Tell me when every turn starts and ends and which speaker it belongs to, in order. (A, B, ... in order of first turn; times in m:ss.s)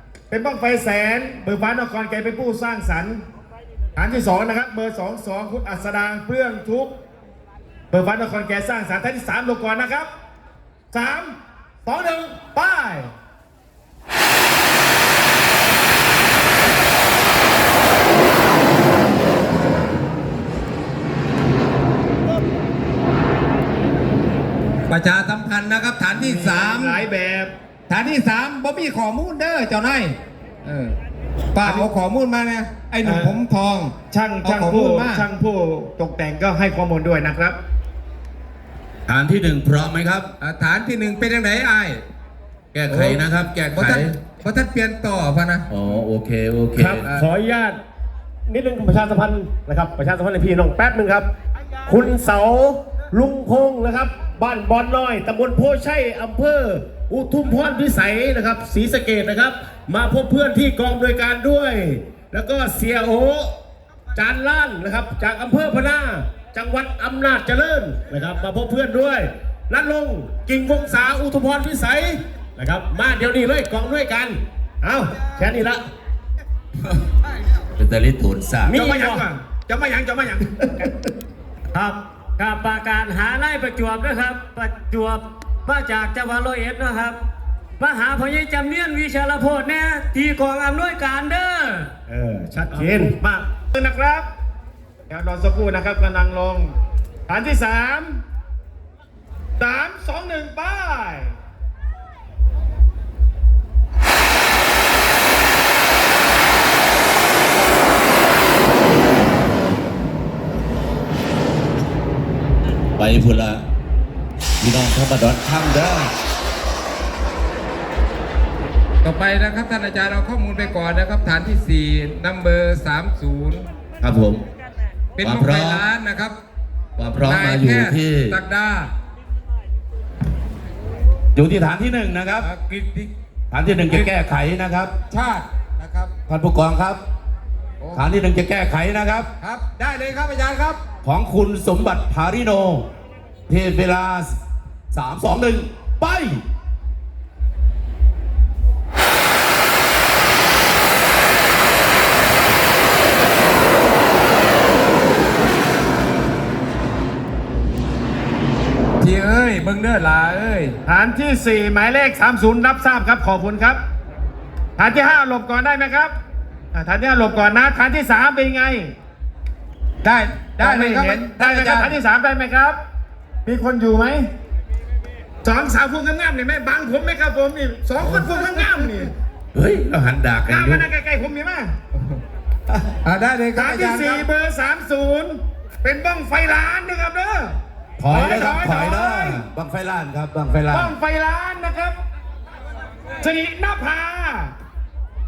0:00.3-0:03.2 A
0:04.0-0:07.0 A
0:07.9-0:10.1 A
0:10.9-0:13.1 A
0:24.9-0:27.0 B
0:26.1-0:27.5 A
0:27.9-0:31.0 B
0:31.5-0:35.3 B
0:31.6-0:31.9 A
0:33.0-0:33.4 A
0:34.1-0:37.6 A
0:39.1-0:40.3 C
0:40.4-0:42.0 B
0:42.7-0:44.1 C
0:42.9-0:45.7 B
0:45.7-0:47.1 C
0:46.8-0:47.8 D
0:48.5-0:51.3 D
0:51.8-1:03.6 D
1:04.2-1:15.8 D
1:17.8-1:18.8 C
1:18.7-1:19.3 D
1:18.7-1:21.0 A
1:21.8-1:27.2 E
1:27.8-1:31.9 E
1:32.1-1:33.2 D
1:32.7-1:34.3 A
1:35.1-1:36.7 A
1:37.3-1:38.2 A
1:39.6-1:41.3 A
1:53.0-1:53.6 C
1:54.6-1:56.1 C
1:59.0-2:03.7 B
2:04.0-2:04.4 C
2:05.2-2:06.4 B
2:05.2-2:05.8 C
2:07.0-2:08.4 C
2:07.2-2:08.9 B
2:11.4-2:12.5 C
2:12.4-2:13.1 B
2:13.5-2:14.9 C
2:15.1-2:16.1 B
2:16.3-2:17.0 C
2:17.9-2:19.3 C
2:19.4-2:20.8 B
2:21.0-2:22.9 C
2:23.5-2:24.4 C
2:24.9-2:26.4 C
2:39.0-2:40.8 B
2:40.9-2:43.8 A
2:44.8-2:46.2 A
2:46.7-2:48.9 A
2:50.0-2:51.9 B
2:50.6-2:52.8 A
2:53.5-2:54.3 A
2:55.4-2:59.1 A
2:58.0-2:58.3 C
2:59.5-3:00.9 C
3:00.5-3:01.7 A
3:03.0-3:04.2 B
3:03.6-3:07.6 A
3:08.0-3:10.9 C
3:08.1-3:09.4 A
3:10.7-3:12.0 A
3:13.2-3:14.5 A